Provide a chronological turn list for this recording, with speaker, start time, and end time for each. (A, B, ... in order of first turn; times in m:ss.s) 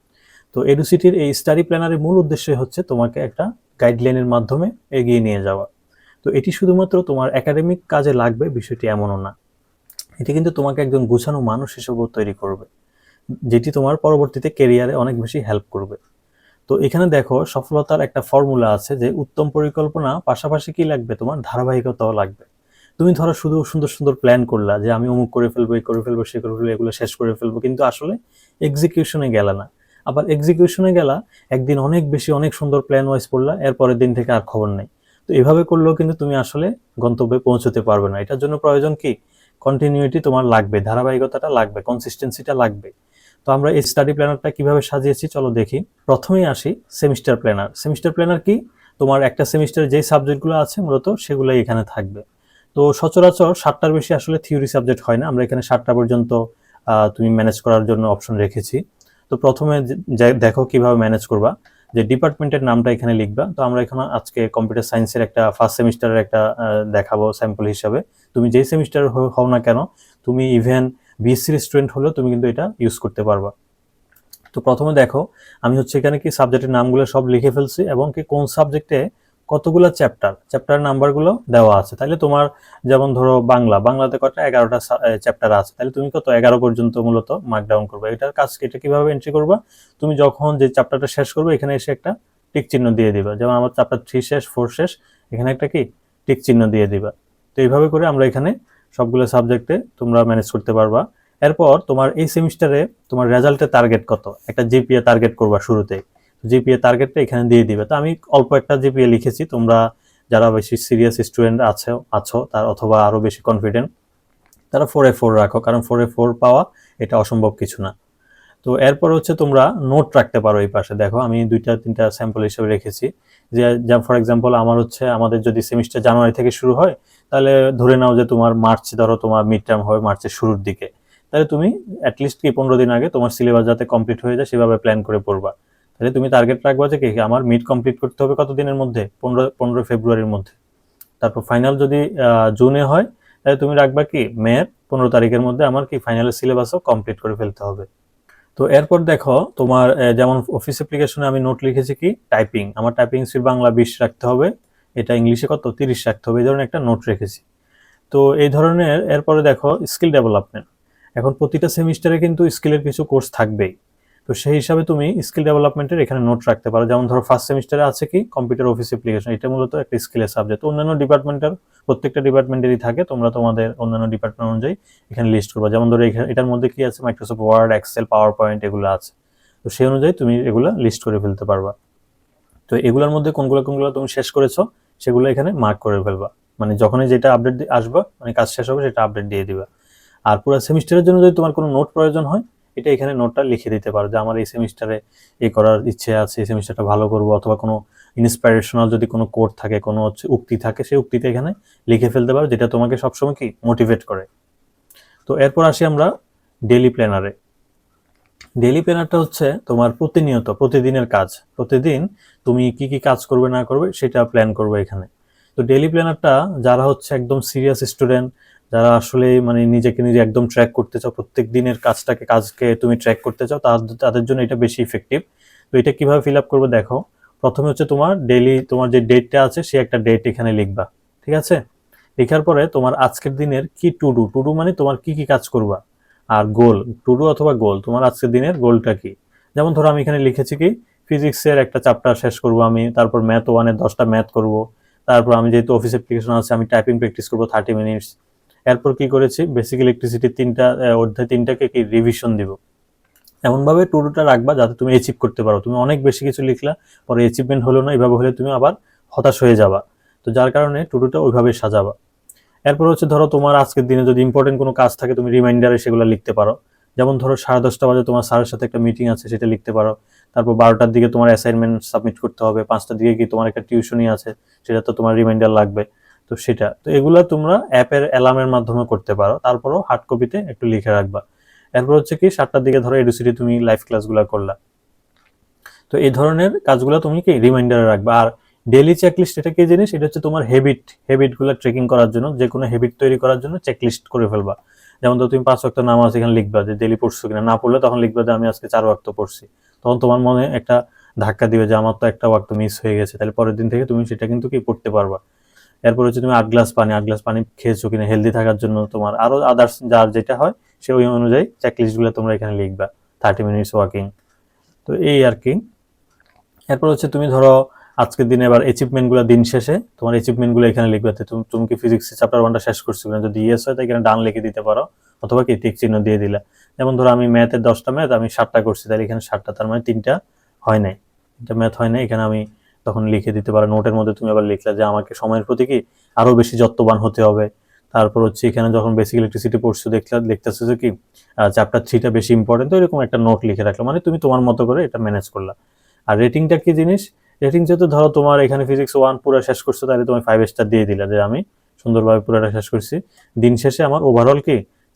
0:00.5-0:05.7 A
0:06.2-0:09.3 A
0:10.2-0:12.6 A
0:13.5-0:16.0 A
0:16.7-0:22.5 A
0:23.0-0:39.1 A
0:39.6-0:42.9 A
0:43.5-0:52.2 A
0:52.8-0:56.4 A
0:57.0-1:06.4 A
1:06.9-1:13.5 A
1:14.5-1:19.0 A
1:19.5-1:49.8 A
1:50.3-1:53.9 A
1:54.7-1:57.9 A
1:58.6-2:20.6 A
2:21.2-2:22.0 A
2:22.6-2:27.9 A
2:28.6-2:37.4 A
2:38.1-2:40.6 A
2:41.2-2:43.7 A
2:44.3-2:59.1 A
2:59.7-3:01.7 A
3:02.7-3:09.7 A
3:10.3-3:24.3 A
3:25.3-3:26.1 A
3:26.7-3:27.3 A
3:28.6-3:45.2 A
3:45.7-3:51.6 A
3:52.2-3:55.8 A
3:56.4-4:08.1 A
4:08.7-4:12.6 A
4:13.5-4:21.9 A
4:22.7-4:41.2 A
4:41.8-4:44.6 A
4:45.9-5:05.2 A
5:05.9-5:14.1 A
5:14.9-5:15.6 A
5:16.7-5:30.2 A
5:30.7-5:40.9 A
5:41.5-5:45.5 A
5:46.1-5:54.6 A